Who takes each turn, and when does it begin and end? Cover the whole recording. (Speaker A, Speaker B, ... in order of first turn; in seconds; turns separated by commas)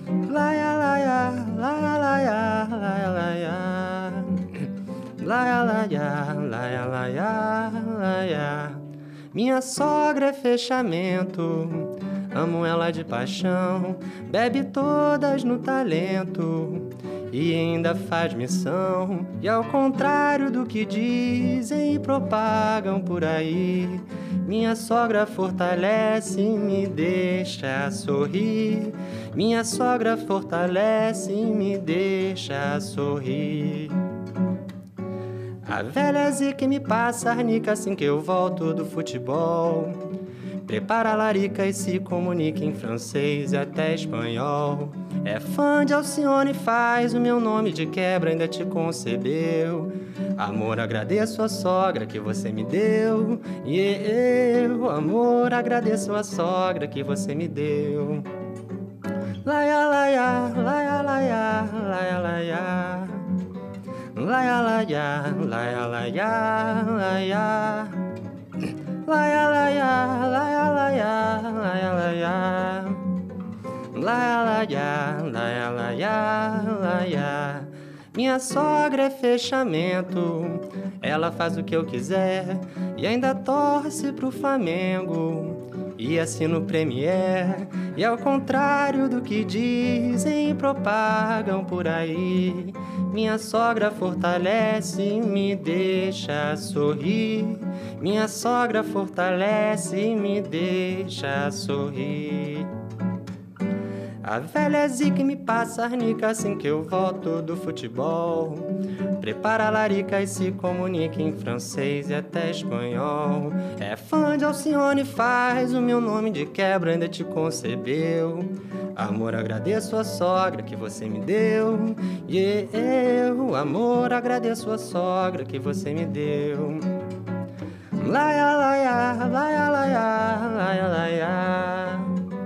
Speaker A: 0.2-34.0, Speaker A: 35.6-40.0, Speaker A: 40.6-58.3, Speaker A: 59.4-63.3, Speaker A: 64.1-68.0, Speaker A: 68.6-73.0, Speaker A: 73.9-102.7, Speaker A: 104.2-127.0, Speaker A: 128.0-132.2